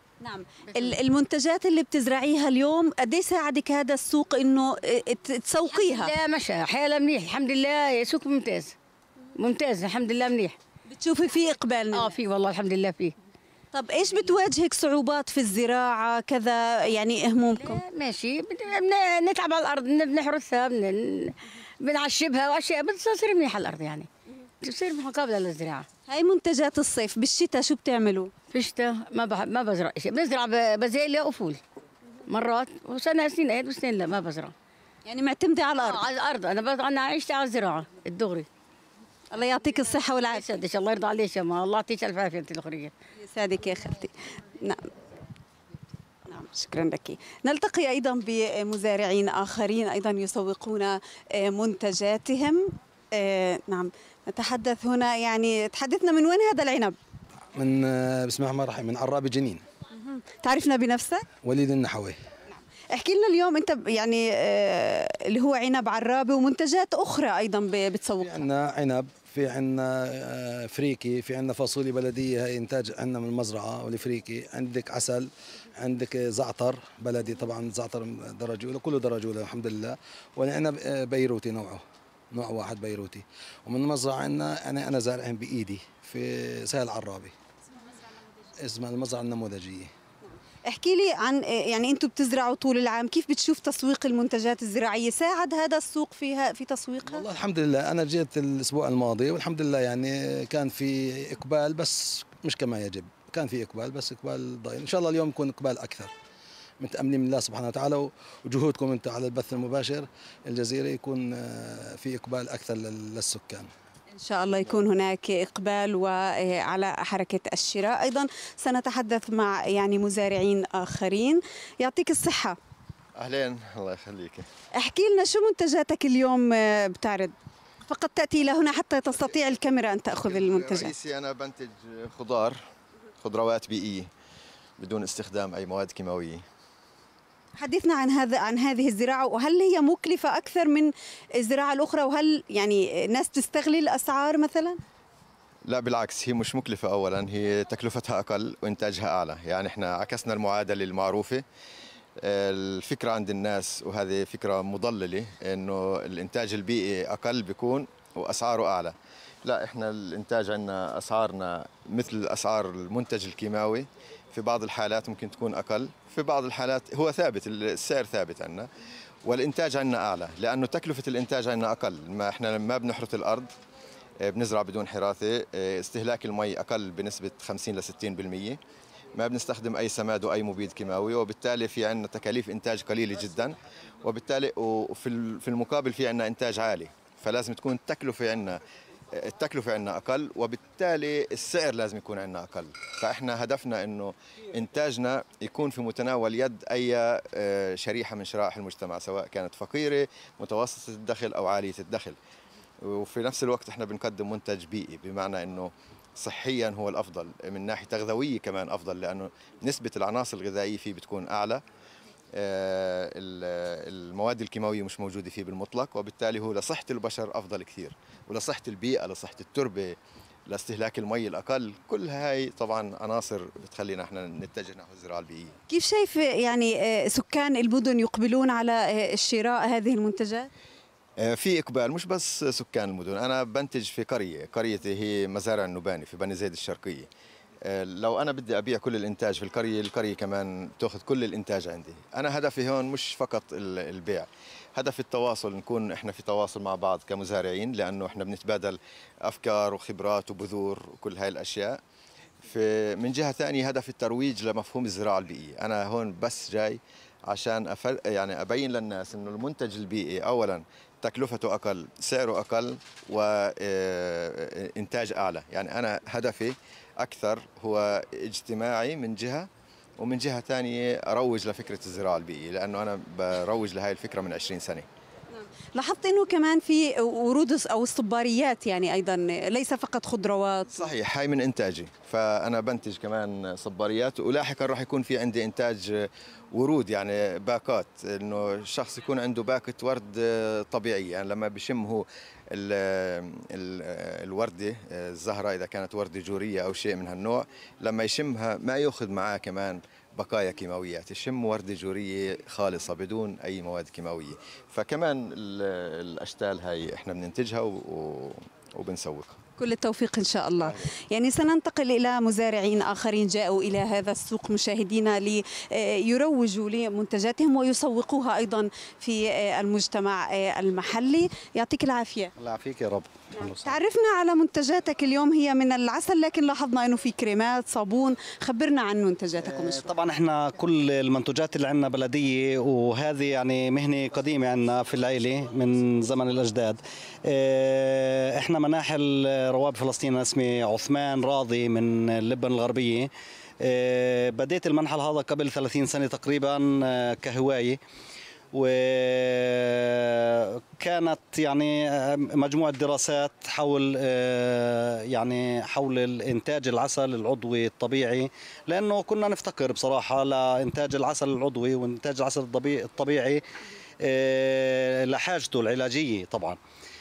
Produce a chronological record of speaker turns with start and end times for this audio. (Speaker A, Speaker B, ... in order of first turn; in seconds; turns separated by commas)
Speaker A: 0.2-6.1, Speaker B: 0.7-1.0, Speaker B: 5.7-8.8, Speaker B: 9.4-10.6, Speaker A: 10.9-12.1, Speaker B: 11.9-13.2, Speaker A: 13.7-17.8, Speaker B: 17.6-24.1, Speaker B: 24.6-25.9, Speaker A: 26.1-28.3, Speaker B: 28.5-31.6, Speaker B: 32.3-34.5, Speaker A: 35.1-36.0, Speaker B: 35.8-38.5, Speaker A: 39.3-40.5, Speaker B: 40.3-42.9, Speaker A: 43.2-44.9, Speaker A: 46.3-52.6, Speaker A: 53.2-57.0, Speaker C: 57.5-59.7, Speaker A: 60.0-61.2, Speaker C: 61.4-62.2, Speaker A: 62.9-68.5, Speaker C: 68.2-87.3, Speaker C: 88.6-89.9, Speaker A: 90.7-97.2, Speaker C: 97.0-106.1, Speaker C: 106.8-113.7, Speaker A: 114.1-122.6, Speaker D: 123.2-124.4, Speaker A: 124.8-127.3, Speaker A: 127.8-130.9, Speaker D: 130.2-132.6, Speaker D: 133.2-134.1, Speaker D: 134.8-136.4, Speaker A: 137.6-144.8, Speaker D: 145.7-151.4, Speaker D: 152.2-158.9, Speaker D: 159.4-168.7, Speaker D: 169.2-173.5, Speaker D: 174.2-178.6, Speaker D: 179.2-188.6, Speaker D: 189.1-202.2, Speaker D: 202.8-211.6, Speaker D: 212.4-220.0, Speaker D: 220.5-225.6, Speaker A: 225.7-230.5, Speaker D: 231.2-237.1, Speaker D: 237.7-251.8, Speaker D: 252.4-269.5, Speaker D: 270.0-274.9, Speaker A: 275.3-280.8, Speaker D: 280.7-309.3, Speaker A: 309.6-322.3, Speaker E: 322.4-323.8, Speaker A: 323.5-329.9, Speaker E: 329.4-343.1, Speaker E: 343.6-347.8, Speaker E: 348.5-363.4, Speaker E: 364.0-366.6